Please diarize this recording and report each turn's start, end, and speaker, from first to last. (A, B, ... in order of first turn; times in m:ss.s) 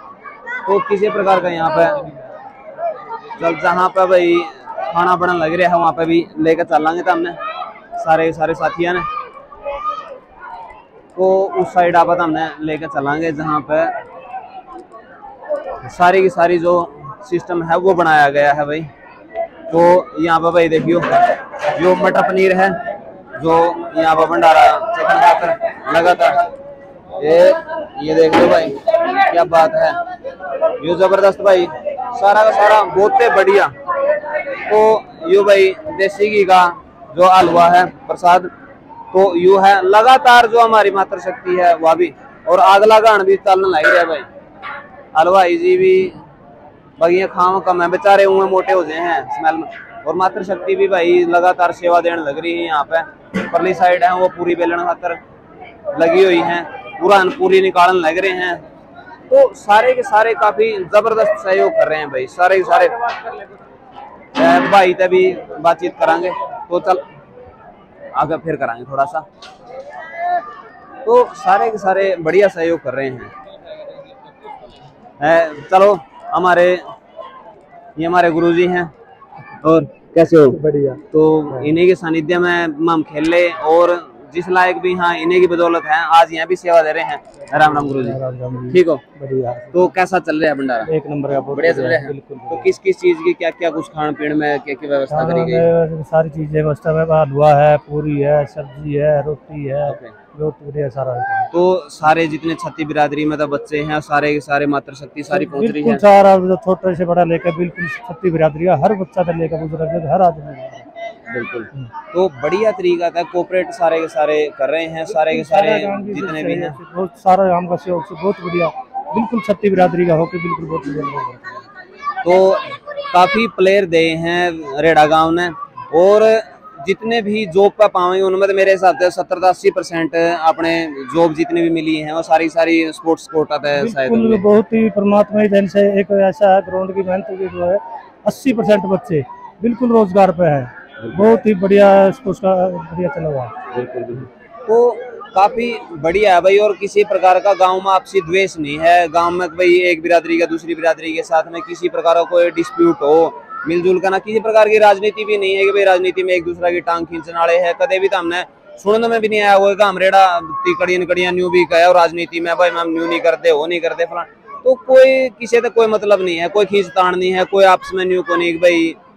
0:00.6-0:02.1 A
0:03.4-0:07.4 A
0:08.0-0:09.1 A
0:11.2-0:13.9 A
0:15.8-0:18.9 A
0:19.7-0:22.8 A
0:23.4-0:26.5 A
0:27.2-0:30.0 A
0:30.8-0:33.7 A
0:34.6-0:38.5 A
0:39.1-0:44.3 A
0:45.1-0:46.2 A
0:47.0-0:55.2 A
0:55.9-0:58.6 A
0:59.3-1:03.1 A
1:04.4-1:07.0 A
1:08.2-1:09.3 A
1:11.0-1:13.3 A
1:15.2-1:16.9 A
1:18.0-1:18.9 A
1:19.6-1:20.6 A
1:20.5-1:21.7 B
1:21.1-1:28.2 A
1:27.5-1:29.9 B
1:28.7-1:29.0 A
1:29.7-1:30.9 A
1:30.8-1:32.7 B
1:31.5-1:35.7 A
1:35.1-1:41.5 B
1:39.8-1:40.2 A
1:41.5-1:46.0 A
1:45.3-1:50.9 B
1:51.3-1:56.8 A
1:55.1-2:01.6 B
2:02.2-2:14.4 A
2:13.8-2:23.5 B
2:21.0-2:21.4 A
2:23.7-2:49.0 A